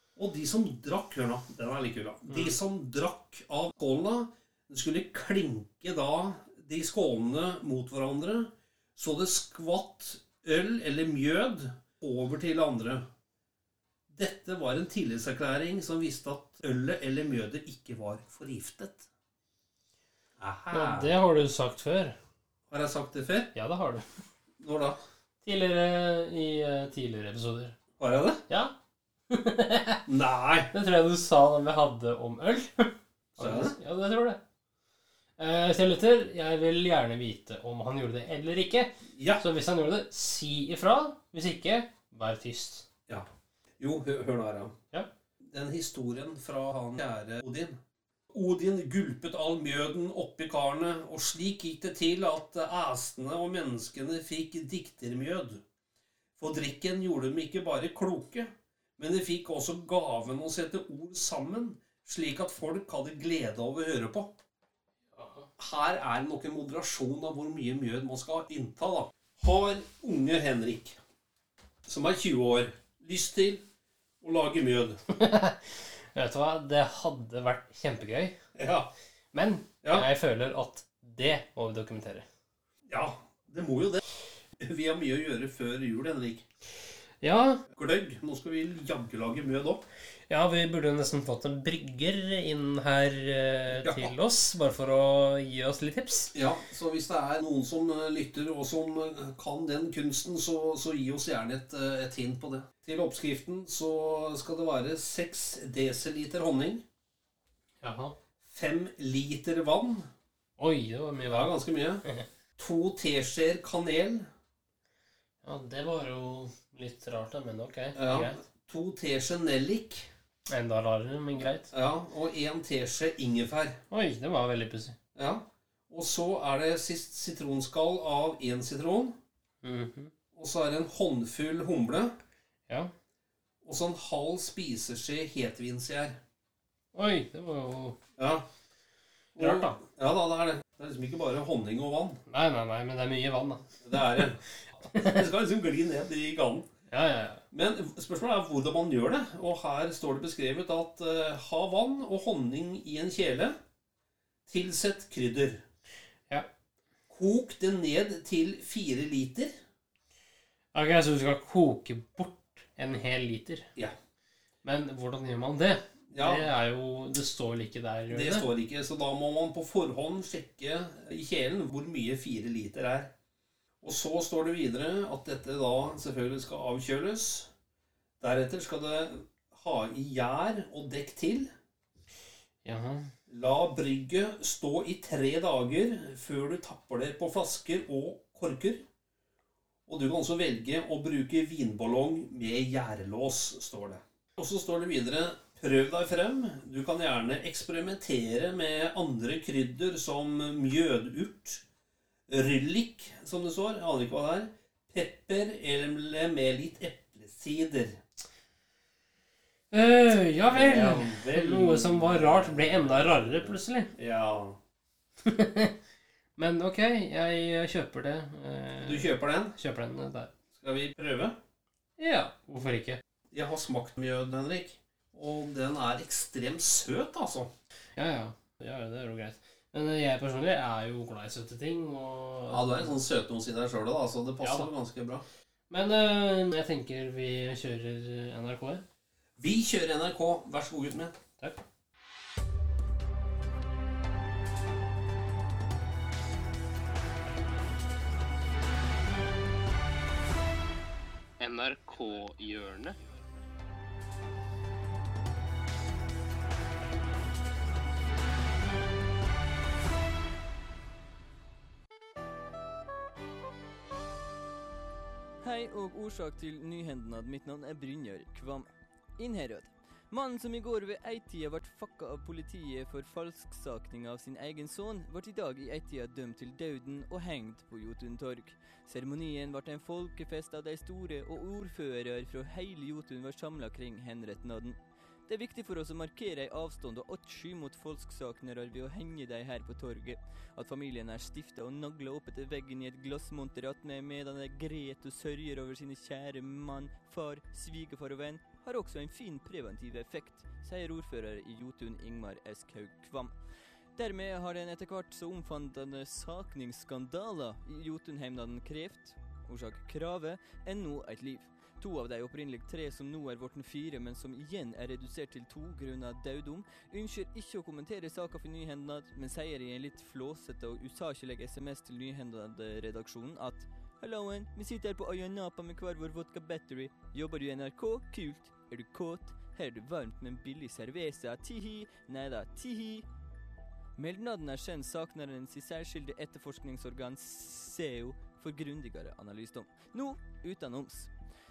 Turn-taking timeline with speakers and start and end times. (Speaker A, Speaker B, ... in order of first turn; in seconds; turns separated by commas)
Speaker A: 0.2-13.0, Speaker A: 14.1-19.1, Speaker A: 20.4-21.1, Speaker B: 20.7-22.2, Speaker A: 22.7-23.5, Speaker B: 23.6-24.1, Speaker A: 24.6-25.0, Speaker B: 25.4-27.8, Speaker A: 28.0-28.4, Speaker B: 28.5-28.7, Speaker B: 29.3-30.0, Speaker A: 30.1-30.7, Speaker B: 30.7-34.4, Speaker A: 33.4-33.8, Speaker B: 35.4-42.9, Speaker A: 39.1-39.4, Speaker A: 43.8-44.7, Speaker A: 45.5-47.8, Speaker A: 48.3-55.6, Speaker A: 56.4-64.3, Speaker B: 65.1-65.5, Speaker A: 65.6-71.0, Speaker A: 71.9-73.6, Speaker A: 74.2-75.0, Speaker B: 75.1-78.4, Speaker A: 78.5-78.9, Speaker B: 79.3-82.3, Speaker A: 82.9-84.0, Speaker A: 84.6-86.5, Speaker B: 87.2-87.6, Speaker A: 87.7-89.8, Speaker B: 90.3-96.3, Speaker A: 93.7-94.1, Speaker A: 96.3-106.8, Speaker B: 107.8-108.2, Speaker A: 108.4-110.1, Speaker B: 110.6-111.5, Speaker A: 111.2-112.0, Speaker A: 112.6-114.3, Speaker B: 115.4-118.4, Speaker A: 118.0-120.1, Speaker B: 120.5-121.7, Speaker A: 121.7-123.8, Speaker B: 123.9-125.0, Speaker A: 125.2-129.2, Speaker B: 129.6-130.1, Speaker A: 130.3-132.1, Speaker A: 133.6-136.2, Speaker B: 136.9-138.0, Speaker A: 138.2-138.5, Speaker A: 139.4-142.2, Speaker B: 139.4-139.8, Speaker B: 142.3-143.7, Speaker A: 143.8-146.7, Speaker B: 144.9-145.2, Speaker B: 146.9-147.4, Speaker A: 147.5-153.6, Speaker A: 154.5-155.6, Speaker A: 157.1-159.5, Speaker B: 160.7-163.7, Speaker B: 164.6-168.5, Speaker A: 166.1-166.5, Speaker A: 168.1-173.1, Speaker A: 173.8-177.5, Speaker A: 178.2-181.5, Speaker B: 182.6-183.1, Speaker A: 183.3-188.8, Speaker A: 189.9-201.6, Speaker A: 202.3-208.0, Speaker B: 209.7-213.9, Speaker A: 210.4-214.6, Speaker B: 215.3-215.7, Speaker B: 216.4-220.3, Speaker A: 218.8-219.6, Speaker A: 220.6-221.4, Speaker B: 222.0-223.0, Speaker A: 223.3-227.5, Speaker B: 228.0-232.9, Speaker A: 232.5-235.2, Speaker B: 234.4-234.7, Speaker B: 235.7-238.8, Speaker A: 239.4-241.2, Speaker B: 251.4-253.0, Speaker C: 265.4-303.4, Speaker C: 304.0-333.1, Speaker C: 334.0-341.1